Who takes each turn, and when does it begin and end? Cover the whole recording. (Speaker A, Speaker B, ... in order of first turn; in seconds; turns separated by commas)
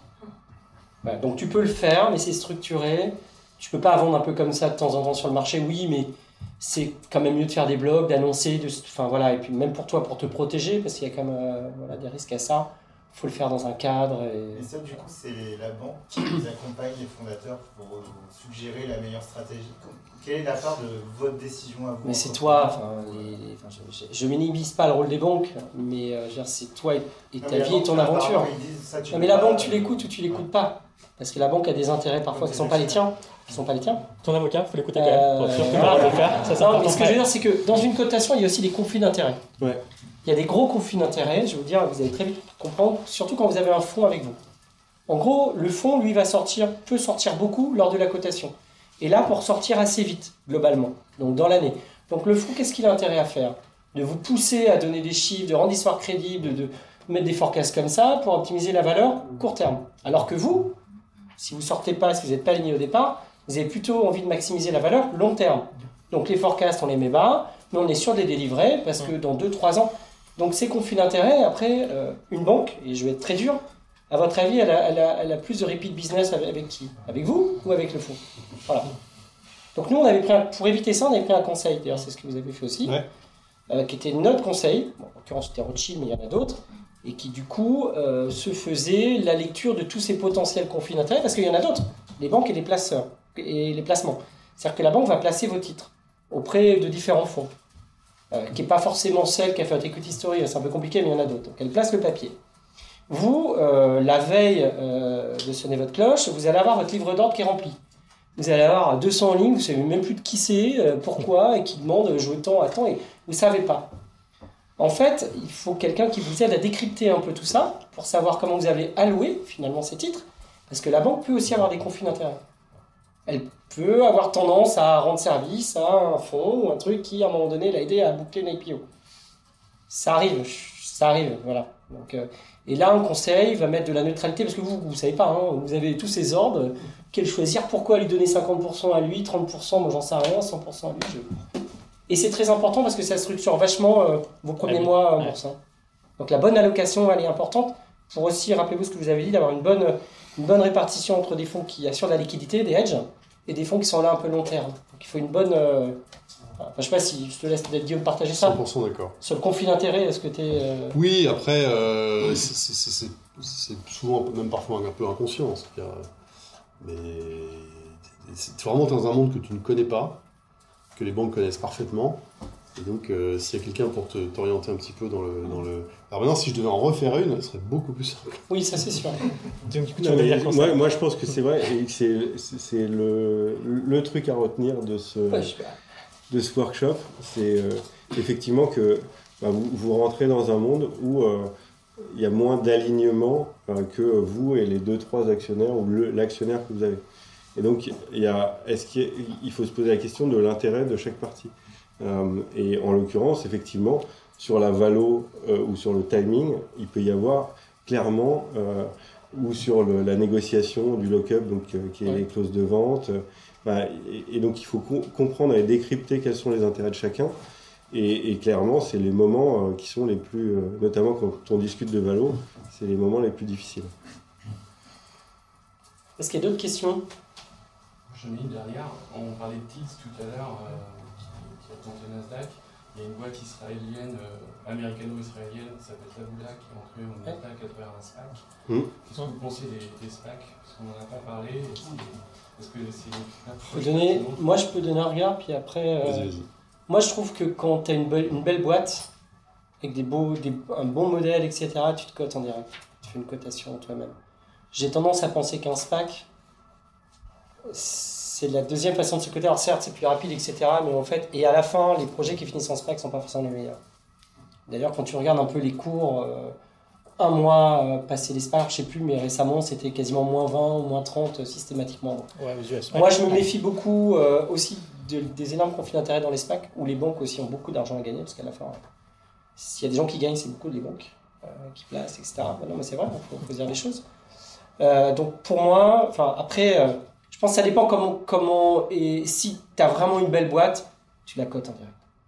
Speaker A: 1.0-14.7, Speaker B: 14.5-23.4, Speaker A: 22.0-28.5, Speaker B: 27.4-30.1, Speaker A: 29.1-34.0, Speaker B: 32.3-33.0, Speaker C: 34.2-37.2, Speaker A: 34.9-39.4, Speaker A: 40.2-44.4, Speaker A: 45.1-60.8, Speaker A: 61.4-78.9, Speaker A: 79.7-83.0, Speaker A: 83.7-97.5, Speaker A: 98.3-102.4, Speaker A: 103.1-107.8, Speaker A: 108.3-113.9, Speaker A: 114.8-122.4, Speaker A: 123.3-128.8, Speaker A: 129.9-141.3, Speaker A: 142.1-145.6, Speaker C: 144.6-145.3, Speaker A: 146.2-156.0, Speaker A: 156.6-158.6, Speaker D: 158.3-159.1, Speaker A: 159.2-161.0, Speaker D: 160.9-166.1, Speaker D: 166.8-170.2, Speaker D: 170.9-172.2, Speaker D: 172.7-178.4, Speaker A: 178.5-179.2, Speaker C: 179.7-180.8, Speaker E: 180.0-185.5, Speaker A: 185.3-185.7, Speaker E: 186.3-197.0, Speaker E: 197.6-217.3, Speaker E: 217.9-223.9, Speaker A: 226.2-227.0, Speaker F: 228.1-238.4, Speaker F: 239.0-244.4, Speaker A: 243.7-246.3, Speaker D: 246.0-246.5, Speaker A: 246.9-249.1, Speaker A: 249.8-254.2, Speaker A: 254.7-256.3, Speaker A: 257.7-263.8, Speaker A: 264.7-266.5, Speaker A: 267.2-272.3, Speaker C: 272.4-273.4, Speaker A: 272.9-278.8, Speaker A: 279.6-284.0, Speaker A: 284.8-292.0